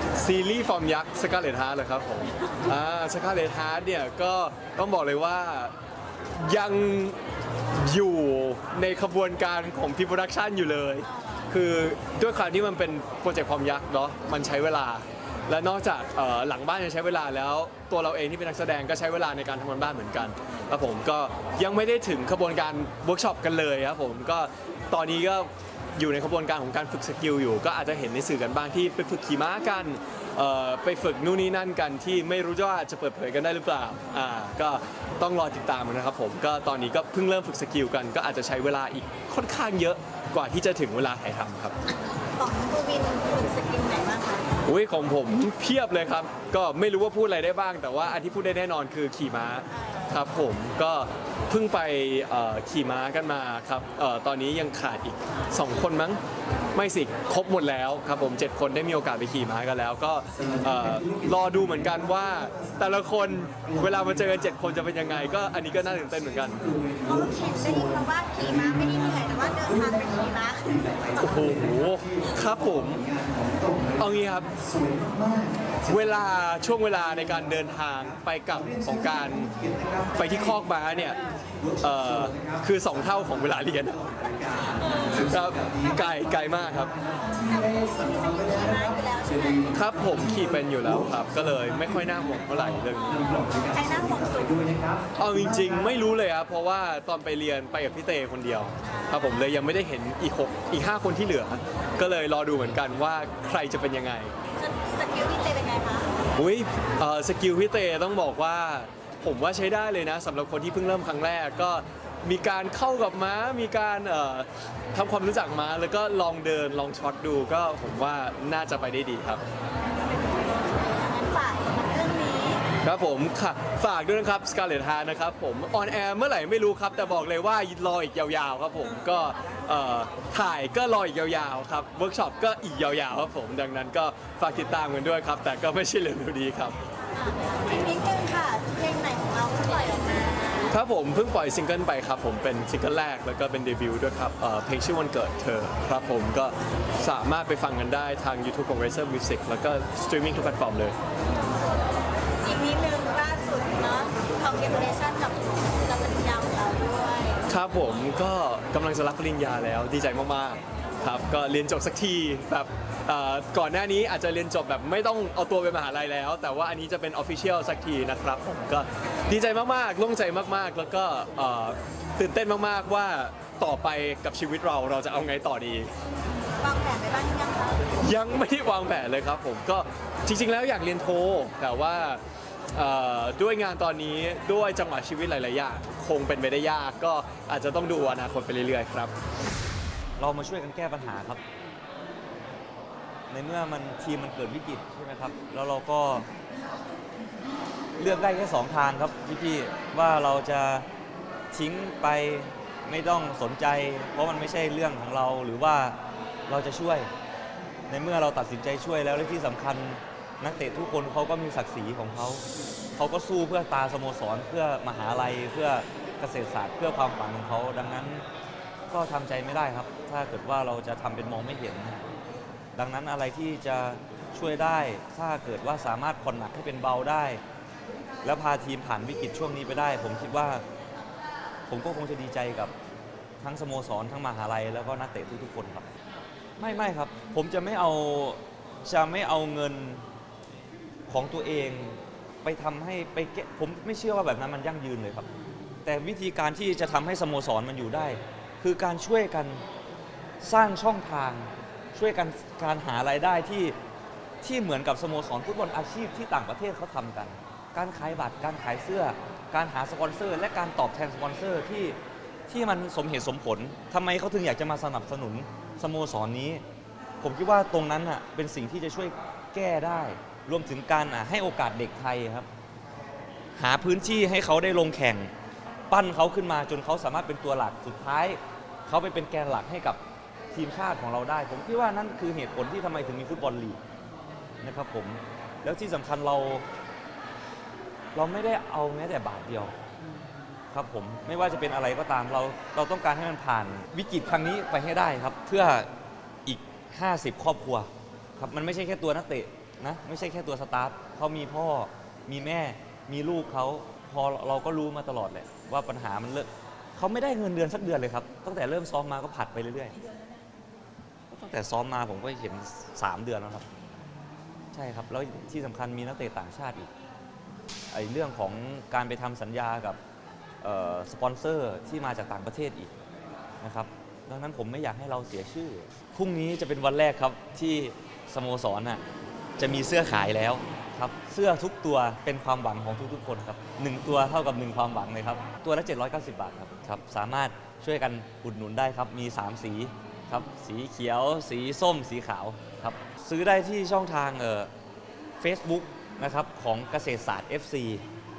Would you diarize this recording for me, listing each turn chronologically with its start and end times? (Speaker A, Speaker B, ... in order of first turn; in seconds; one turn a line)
Speaker A: 0.2-5.7
Speaker A: 6.4-7.2
Speaker A: 7.8-41.7
Speaker B: 42.3-44.5
Speaker A: 44.7-56.2
Speaker B: 49.7-50.0
Speaker A: 56.8-66.7
Speaker B: 67.0-71.6
Speaker A: 71.2-73.0
Speaker A: 74.0-74.5
Speaker A: 75.9-79.5
Speaker A: 80.1-81.2
Speaker A: 81.8-84.1
Speaker B: 84.9-86.0
Speaker A: 85.1-86.9
Speaker B: 87.3-89.8
Speaker A: 89.7-93.5
Speaker B: 92.9-94.8
Speaker A: 95.2-104.3
Speaker B: 98.8-99.5
Speaker B: 104.5-106.1
Speaker A: 106.4-119.4
Speaker B: 120.4-122.6
Speaker A: 122.8-136.8
Speaker B: 137.1-140.8
Speaker A: 140.7-150.9
Speaker B: 152.4-157.4
Speaker A: 157.5-175.9
Speaker B: 176.6-177.9
Speaker A: 178.0-182.2
Speaker A: 182.8-189.1
Speaker C: 190.2-191.4
Speaker C: 193.3-196.3
Speaker C: 198.0-200.9
Speaker C: 201.5-207.1
Speaker C: 207.9-212.4
Speaker C: 213.0-218.3
Speaker C: 218.9-222.1
Speaker C: 222.8-227.4
Speaker C: 228.2-230.6
Speaker C: 231.7-232.7
Speaker C: 233.4-235.9
Speaker C: 236.6-240.1
Speaker C: 241.1-245.3
Speaker C: 245.8-249.6
Speaker C: 250.4-253.8
Speaker C: 254.4-266.6
Speaker C: 267.2-272.5
Speaker C: 273.6-275.3
Speaker C: 275.9-280.0
Speaker C: 280.5-283.8
Speaker C: 284.6-286.7
Speaker C: 288.1-289.7
Speaker C: 290.7-295.9
Speaker C: 296.4-310.0
Speaker C: 311.3-313.7
Speaker C: 314.7-316.9
Speaker C: 317.9-320.0
Speaker C: 320.6-322.9
Speaker C: 323.6-329.0
Speaker C: 329.6-344.7
Speaker C: 345.4-348.1